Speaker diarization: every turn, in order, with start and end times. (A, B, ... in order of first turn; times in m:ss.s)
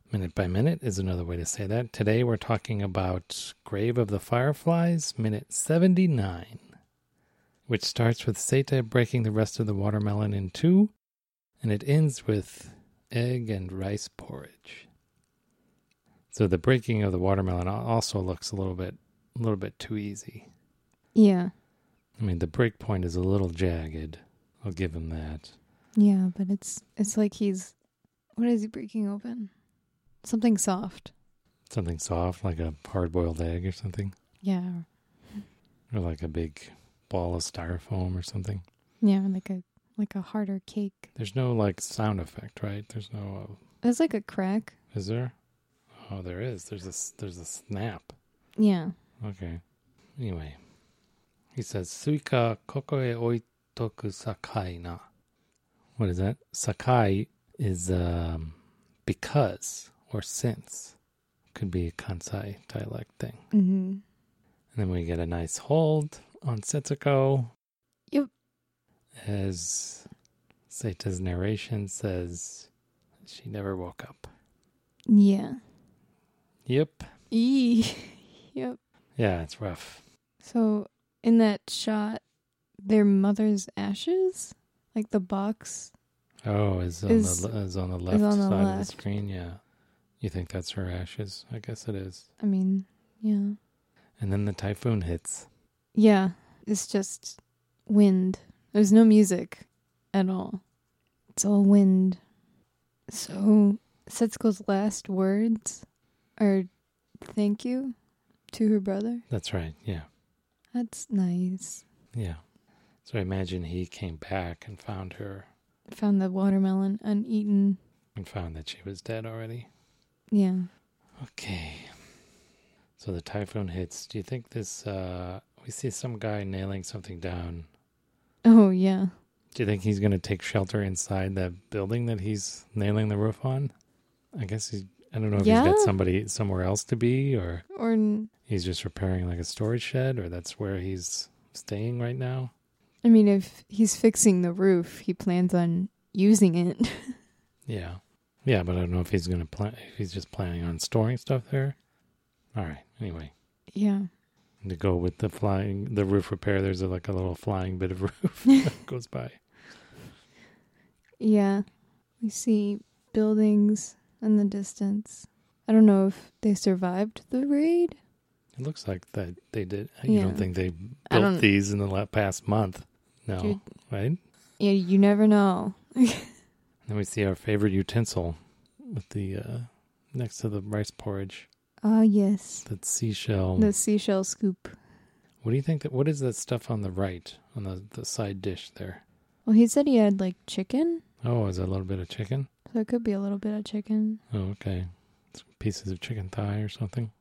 0:00.1-0:06.6 A
0:07.7-0:10.9 A
0:11.6-0:14.9 A
0:16.3-0:20.5 A
0:21.2-0:21.5 B
0:22.2-0:25.6 A
0:26.0-0:27.8 B
0:28.4-0:29.5 B
0:30.2-0:31.1 B
0:31.7-0:34.2 A
0:34.4-0:34.8 B
0:35.9-0:38.6 A
0:39.0-0:41.1 B
0:41.2-0:43.6 A
0:43.8-0:44.8 B
0:44.9-0:45.3 A
0:46.0-0:48.2 A
0:48.6-0:49.0 B
0:49.2-0:49.6 A
0:50.2-0:50.6 A
0:51.6-0:55.1 A
0:56.0-1:01.0 A
1:01.5-1:03.4 A
1:03.5-1:04.0 B
1:04.7-1:07.5 A
1:09.2-1:10.1 A
1:10.7-1:12.7 A
1:13.2-1:14.3 A
1:15.1-1:15.6 B
1:16.7-1:17.1 A
1:17.3-1:18.8 B
1:19.2-1:20.0 A
1:20.4-1:22.2 B
1:22.8-1:25.9 B
1:26.4-1:29.6 A
1:27.1-1:27.5 B
1:28.1-1:29.0 B
1:30.2-1:32.3 A
1:32.4-1:33.6 B
1:34.2-1:35.5 A
1:36.0-1:40.6 B
1:41.4-1:42.2 B
1:43.1-1:45.8 B
1:46.4-1:46.7 B
1:47.2-1:48.0 B
1:48.5-1:49.2 B
1:49.3-1:50.1 A
1:50.7-1:51.8 B
1:52.1-1:52.4 A
1:53.0-1:55.5 A
1:55.9-1:57.8 B
1:58.2-1:59.7 A
2:00.3-2:00.7 B
2:01.2-2:01.9 A
2:03.0-2:07.7 A
2:08.4-2:09.1 B
2:09.5-2:13.7 A
2:14.4-2:17.7 A
2:15.4-2:15.9 B
2:17.7-2:18.3 B
2:18.5-2:22.5 A
2:23.0-2:27.2 B
2:27.7-2:31.8 A
2:32.6-2:33.3 A
2:33.7-2:34.1 B
2:34.6-2:39.4 A
2:41.2-2:41.7 B
2:42.2-2:48.0 B
2:48.6-2:54.2 A
2:50.1-2:50.5 B
2:51.1-2:51.5 B
2:54.6-2:56.3 B
2:56.9-3:01.5 A
3:01.8-3:02.7 B
3:02.6-3:03.7 A
3:03.6-3:04.8 B
3:05.4-3:09.0 A
3:09.5-3:11.0 B
3:11.2-3:12.5 A
3:12.7-3:14.2 B
3:14.3-3:17.1 A